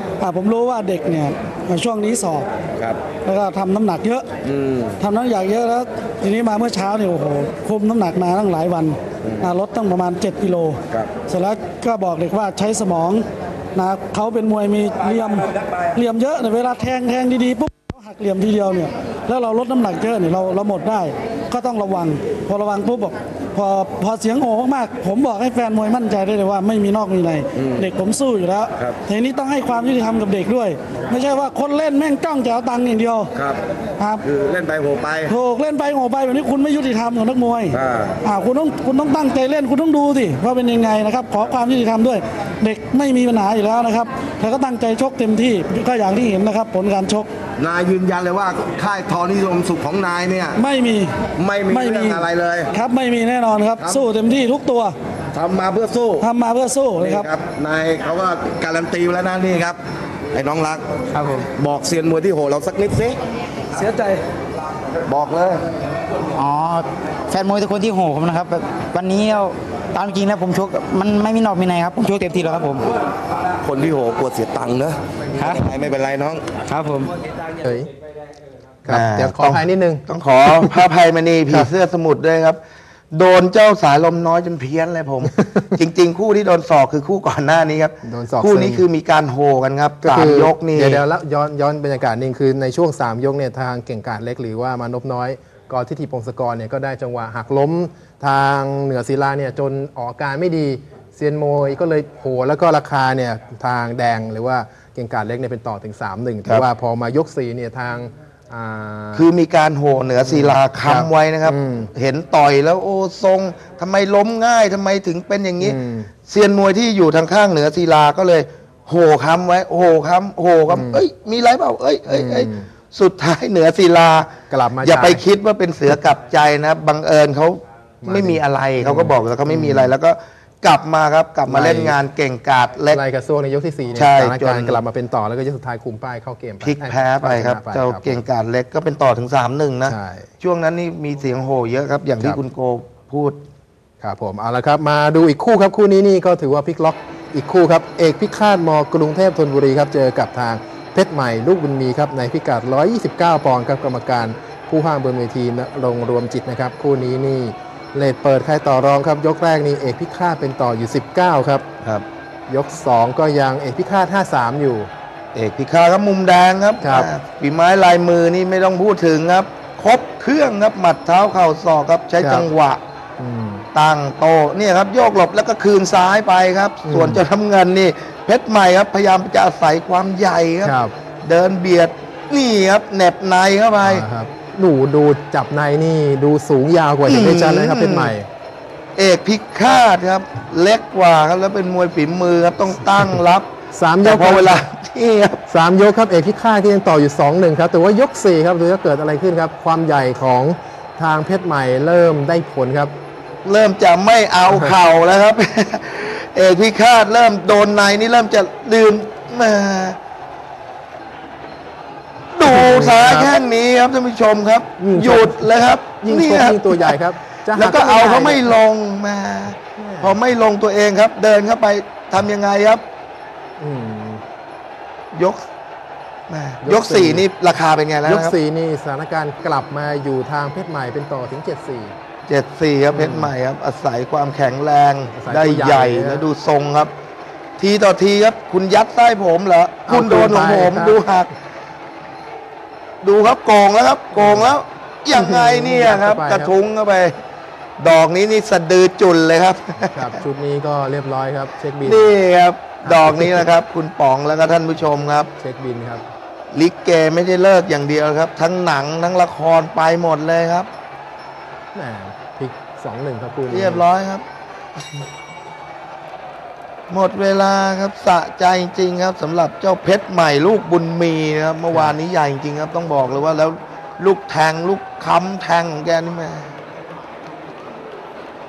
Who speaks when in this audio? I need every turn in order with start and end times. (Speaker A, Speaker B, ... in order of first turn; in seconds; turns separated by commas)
Speaker A: 0.2-2.5, Speaker B: 2.8-3.1, Speaker A: 3.2-4.3, Speaker B: 4.4-5.0, Speaker A: 5.0-33.3, Speaker B: 9.2-9.5, Speaker B: 27.6-27.9, Speaker B: 33.4-33.6, Speaker A: 34.0-34.3, Speaker B: 34.2-35.3, Speaker A: 35.3-47.3, Speaker B: 37.7-38.2, Speaker B: 47.6-50.6, Speaker A: 50.6-55.0, Speaker B: 51.4-52.7, Speaker B: 53.8-54.1, Speaker B: 55.3-56.3, Speaker A: 56.2-57.3, Speaker B: 57.0-59.8, Speaker B: 60.3-60.8, Speaker C: 61.1-61.5, Speaker B: 61.6-63.2, Speaker A: 63.8-64.2, Speaker B: 65.1-65.7, Speaker C: 66.3-72.9, Speaker B: 73.6-76.5, Speaker C: 75.4-75.7, Speaker C: 76.7-77.1, Speaker D: 77.6-77.9, Speaker D: 78.8-80.0, Speaker E: 78.9-82.6, Speaker E: 83.1-91.0, Speaker D: 88.0-88.8, Speaker D: 90.0-109.3, Speaker E: 109.1-133.0, Speaker D: 110.2-111.9, Speaker D: 115.6-116.1, Speaker D: 120.7-121.0, Speaker D: 122.1-122.7, Speaker D: 124.5-125.2, Speaker D: 128.0-129.9, Speaker D: 131.5-132.0, Speaker D: 132.9-138.2, Speaker E: 133.9-134.8, Speaker E: 136.6-143.4, Speaker D: 139.9-140.3, Speaker D: 144.0-161.7, Speaker D: 162.5-164.9, Speaker E: 165.3-172.8, Speaker D: 166.8-167.1, Speaker D: 172.2-172.5, Speaker D: 173.2-173.7, Speaker E: 173.7-184.1, Speaker D: 176.8-177.2, Speaker D: 180.6-180.9, Speaker D: 183.8-188.3, Speaker E: 187.1-188.2, Speaker E: 189.0-193.5, Speaker D: 193.7-194.7, Speaker E: 194.0-195.4, Speaker D: 195.5-202.9, Speaker E: 203.4-210.0, Speaker D: 204.5-204.8, Speaker E: 212.3-217.0, Speaker D: 212.4-213.3, Speaker D: 214.8-218.5, Speaker E: 217.5-222.8, Speaker D: 219.8-220.2, Speaker D: 223.6-224.2, Speaker E: 225.1-225.4, Speaker E: 226.3-228.3, Speaker D: 226.6-227.3, Speaker D: 228.0-231.9, Speaker E: 232.3-236.9, Speaker D: 232.9-233.3, Speaker D: 235.1-236.3, Speaker E: 237.6-241.3, Speaker D: 239.9-241.0, Speaker E: 243.0-247.2, Speaker D: 244.2-244.6, Speaker D: 245.1-246.5, Speaker E: 247.8-250.2, Speaker D: 249.9-252.1, Speaker E: 251.8-255.3, Speaker D: 252.8-253.5, Speaker D: 255.4-256.1, Speaker E: 256.5-260.7, Speaker D: 261.7-263.9, Speaker E: 263.5-264.2, Speaker E: 266.9-276.6, Speaker D: 271.7-272.0